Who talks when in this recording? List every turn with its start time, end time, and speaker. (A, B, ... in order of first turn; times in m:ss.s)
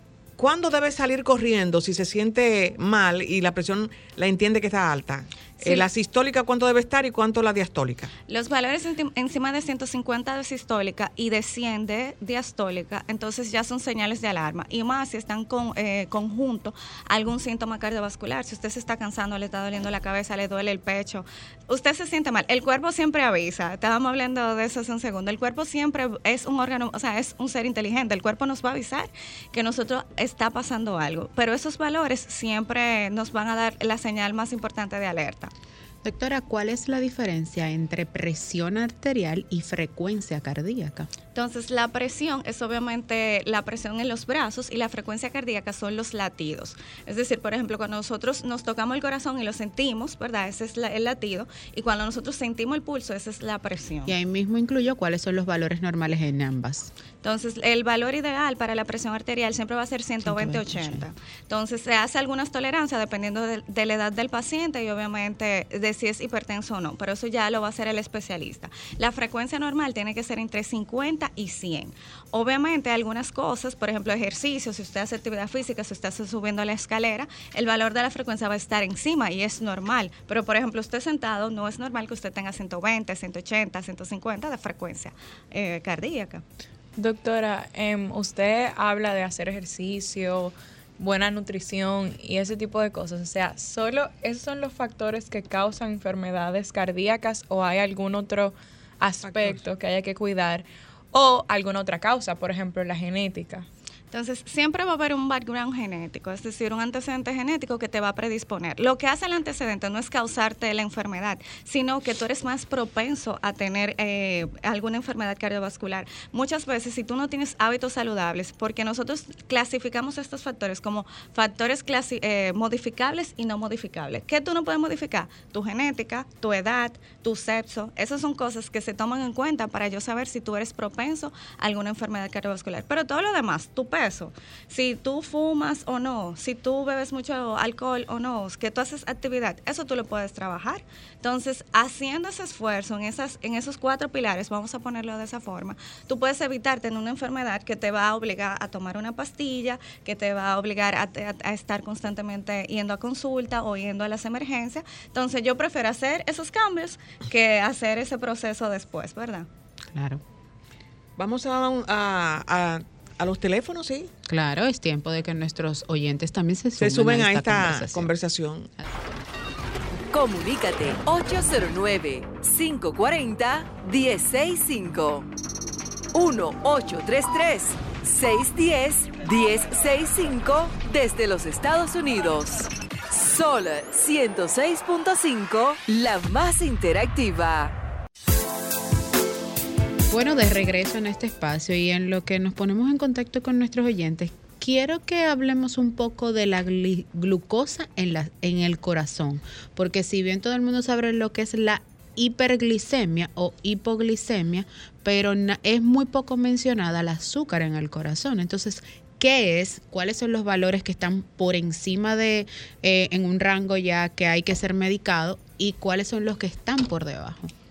0:00.4-0:08.1 A
0:05.6-0:05.9 B
0:08.3-0:35.5 B
0:36.0-0:41.1 C
0:41.3-0:54.1 B
0:54.0-0:56.9 C
0:57.2-1:26.4 B
1:00.2-1:01.1 C
1:27.0-1:43.6 D
1:39.2-1:39.6 A
1:44.1-2:39.5 B
2:39.9-2:40.2 C
2:41.2-2:44.1 A
2:44.3-2:48.1 C
2:46.8-2:48.7 A
2:50.1-2:55.3 E
2:56.1-3:07.7 E
3:10.1-3:37.5 C